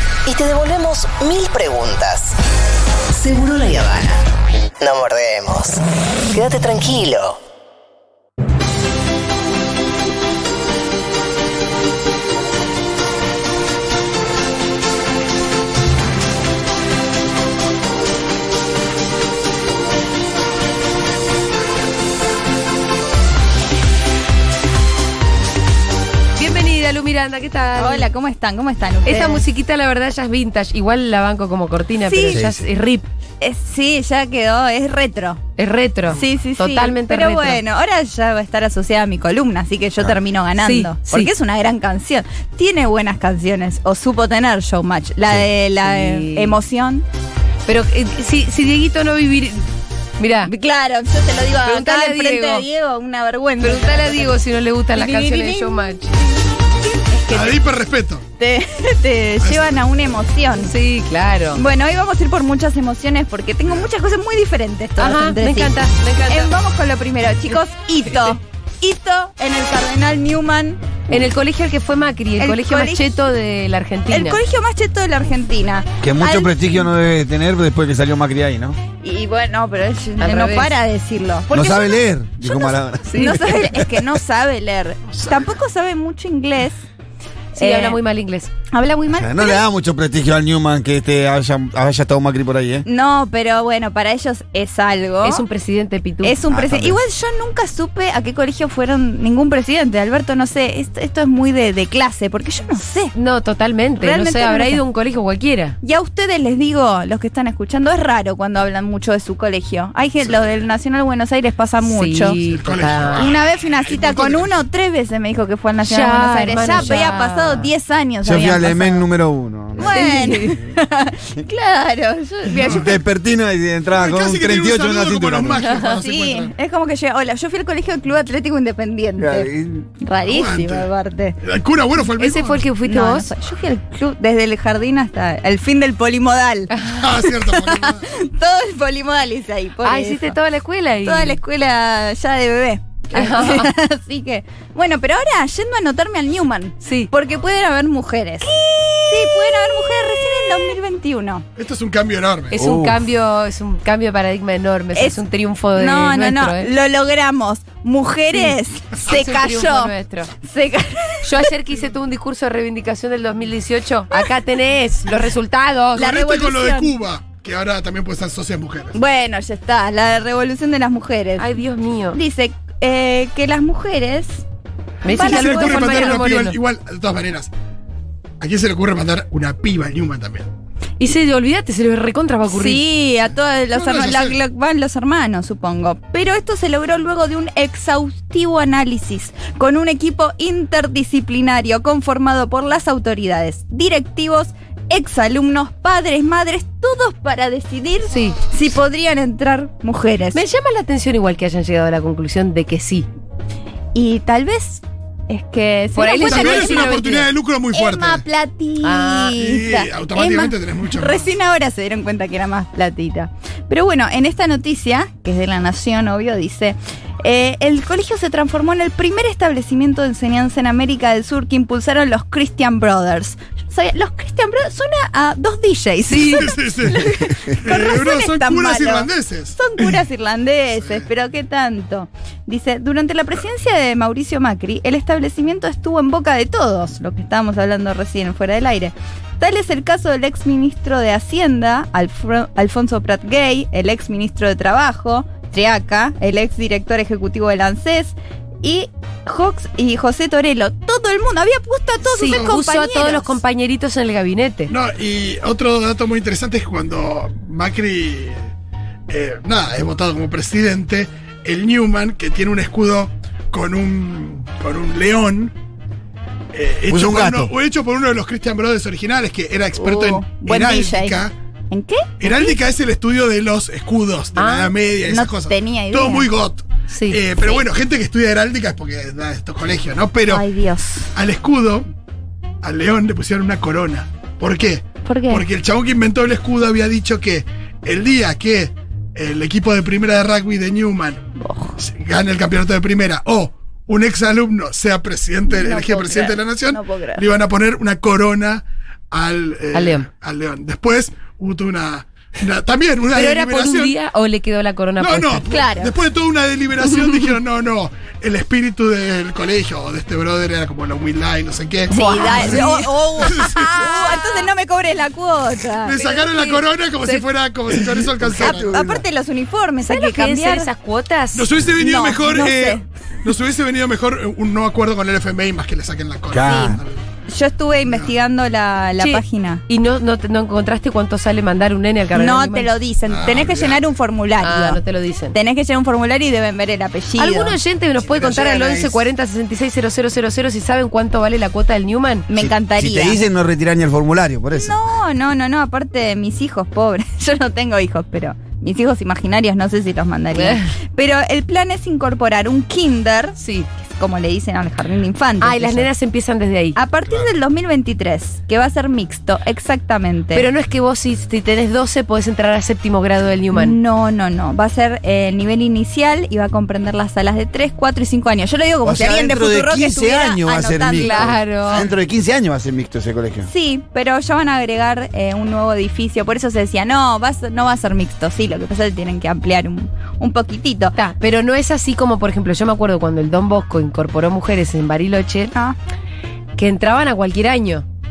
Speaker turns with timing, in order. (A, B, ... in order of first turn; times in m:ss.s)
0:00.3-0:02.4 A
0:03.1-0:04.2 A
0:04.8-0:07.4 A
0:26.4-0:28.1 B
0:27.8-0:29.5 C
0:29.0-0:33.1 B
0:32.0-0:32.4 C
0:32.3-0:32.7 D
0:33.4-0:35.4 C
0:35.6-0:37.6 B
0:36.1-0:47.0 C
0:40.6-0:41.3 B
0:45.8-0:46.6 B
0:47.7-0:49.6 B
0:50.2-0:50.5 B
0:50.4-0:54.3 C
0:51.7-0:52.7 B
0:53.6-0:56.2 B
0:55.0-0:55.8 C
0:56.9-0:57.6 C
0:57.3-0:58.2 E
0:58.4-1:00.7 C
0:59.4-0:59.7 E
1:00.6-1:01.6 B
1:01.5-1:10.8 C
1:05.0-1:06.5 B
1:11.1-1:14.4 B
1:12.4-1:13.2 C
1:14.1-1:16.6 C
1:16.0-1:18.8 D
1:19.0-1:26.8 C
1:20.2-1:20.8 B
1:21.5-1:24.0 D
1:23.1-1:23.5 B
1:27.6-1:28.5 B
1:27.6-1:28.0 C
1:28.7-1:29.6 C
1:29.1-1:32.9 D
1:32.8-1:35.4 C
1:35.2-1:36.4 B
1:36.2-1:43.1 C
1:36.5-1:37.0 D
1:43.1-1:45.8 B
1:44.0-1:44.8 C
1:45.8-1:52.4 C
1:51.8-1:53.3 B
1:52.4-1:54.5 E
1:53.2-1:59.1 C
1:55.8-1:57.7 B
1:58.2-2:00.3 D
1:59.8-2:02.9 C
1:59.8-2:00.6 B
2:02.6-2:02.9 E
2:02.6-2:05.7 D
2:03.9-2:06.5 E
2:05.6-2:11.4 C
2:09.2-2:09.9 D
2:10.3-2:10.9 E
2:11.4-2:12.6 E
2:12.2-2:13.3 B
2:12.8-2:16.7 C
2:16.9-2:18.1 E
2:17.3-2:20.3 C
2:19.8-2:21.4 B
2:21.0-2:28.5 C
2:23.1-2:23.7 B
2:26.8-2:27.1 B
2:28.4-2:30.8 B
2:29.1-2:31.4 C
2:31.6-2:32.6 E
2:32.5-2:36.7 B
2:32.5-2:33.0 D
2:35.0-2:35.2 C
2:35.7-2:39.9 C
2:39.1-2:40.3 B
2:40.4-2:41.5 C
2:41.2-2:46.1 B
2:46.0-2:49.0 E
2:46.0-2:47.0 C
2:48.9-2:51.5 C
2:51.4-2:52.2 B
2:52.1-2:54.4 C
2:55.0-2:56.6 B
2:55.1-2:56.2 C
2:55.1-2:57.5 E
2:58.4-3:00.5 E
3:01.0-3:02.8 B
3:02.5-3:20.4 C
3:03.7-3:04.4 E
3:18.1-3:18.4 B
3:20.3-3:23.1 B
3:23.9-3:27.0 C
3:26.0-3:27.3 B
3:26.2-3:28.2 E
3:27.7-4:13.4 C
3:28.8-3:29.4 B
3:29.4-3:31.3 E
3:46.1-3:46.4 B
3:46.2-3:50.0 E
4:12.0-4:14.7 B
4:12.3-4:12.6 E
4:14.7-4:18.5 E
4:19.1-4:25.6 E
4:26.5-4:31.3 E
4:26.9-4:27.5 D
4:29.8-4:32.6 C
4:32.2-4:40.4 E
4:34.4-4:34.8 B
4:35.1-4:36.3 C
4:36.9-4:37.2 B
4:40.3-4:41.1 C
4:41.1-4:41.8 E
4:42.6-4:51.3 E
4:45.0-4:45.4 C
4:51.4-4:51.8 C
4:51.8-5:04.0 E
4:55.5-4:57.3 C
4:59.7-5:00.1 B
5:03.1-5:05.4 B
5:05.0-5:14.1 E
5:05.5-5:05.9 C
5:11.9-5:16.0 C
5:11.9-5:12.8 B
5:14.1-5:14.4 B
5:15.8-5:18.9 E
5:15.9-5:17.3 B
5:18.2-5:19.0 D
5:18.4-5:20.7 C
5:19.8-5:21.5 B
5:21.3-5:27.0 E
5:21.8-5:22.8 C
5:26.3-5:26.8 D
5:26.5-5:26.8 C
5:27.3-5:29.6 C
5:27.9-5:28.1 E
5:29.0-5:32.7 B
5:32.1-5:34.8 C
5:33.1-5:33.8 E
5:34.4-5:35.4 B
5:35.3-5:37.6 C
5:37.2-5:42.3 B
5:38.0-5:39.0 D
5:42.3-5:43.2 C
5:42.4-5:44.8 D
5:44.5-5:55.9 C
5:50.3-5:50.7 B
5:53.4-5:53.7 B
5:55.4-5:56.8 B
5:56.8-6:00.5 C
6:00.3-6:03.8 B
6:03.5-6:11.8 C
6:08.8-6:13.5 D
6:11.0-6:11.9 B
6:13.5-6:21.0 C
6:21.0-6:25.5 B
6:26.6-6:27.8 B